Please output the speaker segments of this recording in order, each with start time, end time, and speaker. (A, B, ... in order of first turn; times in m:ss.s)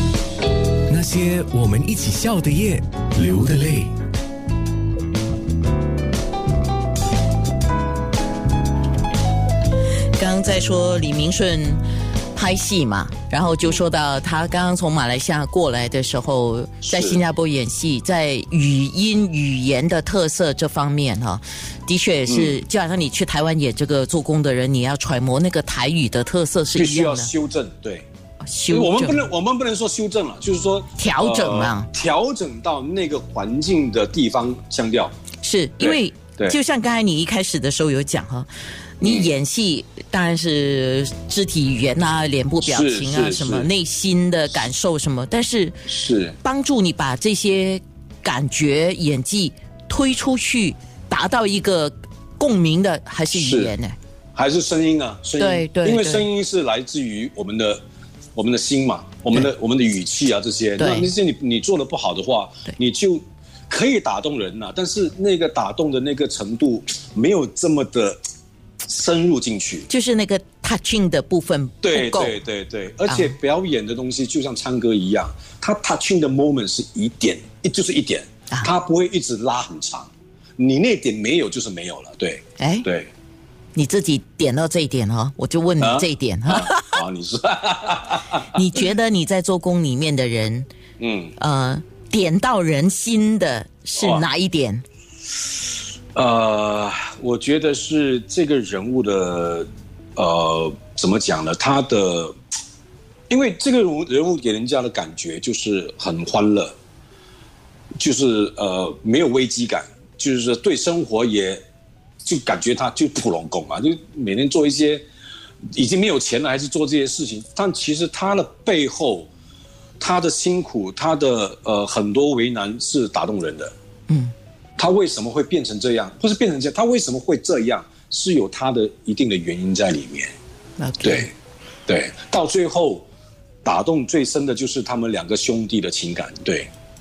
0:00.9-0:03.9 A
0:10.2-0:11.8 B
0:12.3-0:27.3 B
0:16.8-0:17.2 C
0:22.3-0:22.6 C
0:26.8-0:28.1 C
0:28.4-0:29.3 B
0:28.7-0:35.2 C
0:31.0-0:31.9 B
0:35.4-0:38.5 B
0:35.8-0:36.6 C
0:39.0-0:45.9 B
0:39.0-0:39.4 C
0:42.6-0:43.7 C
0:45.9-0:46.4 C
0:46.4-0:54.0 B
0:53.3-0:53.7 C
0:54.4-0:57.8 C
0:55.4-0:56.3 B
0:58.4-1:08.2 C
1:00.8-1:01.1 B
1:08.9-1:09.9 C
1:09.9-1:12.4 B
1:11.8-1:23.1 C
1:13.1-1:13.4 B
1:22.6-1:22.9 B
1:23.8-1:27.0 B
1:25.8-1:28.4 C
1:28.5-1:30.7 B
1:31.0-1:31.3 C
1:31.4-1:34.8 B
1:34.0-1:34.3 C
1:36.1-1:42.4 C
1:43.3-1:46.8 C
1:48.0-1:51.6 C
1:52.2-1:55.0 C
1:55.7-1:59.3 C
2:00.0-2:03.7 C
2:04.8-2:10.3 C
2:10.8-2:11.3 B
2:11.0-2:11.3 C
2:11.9-2:13.1 C
2:13.6-2:16.7 C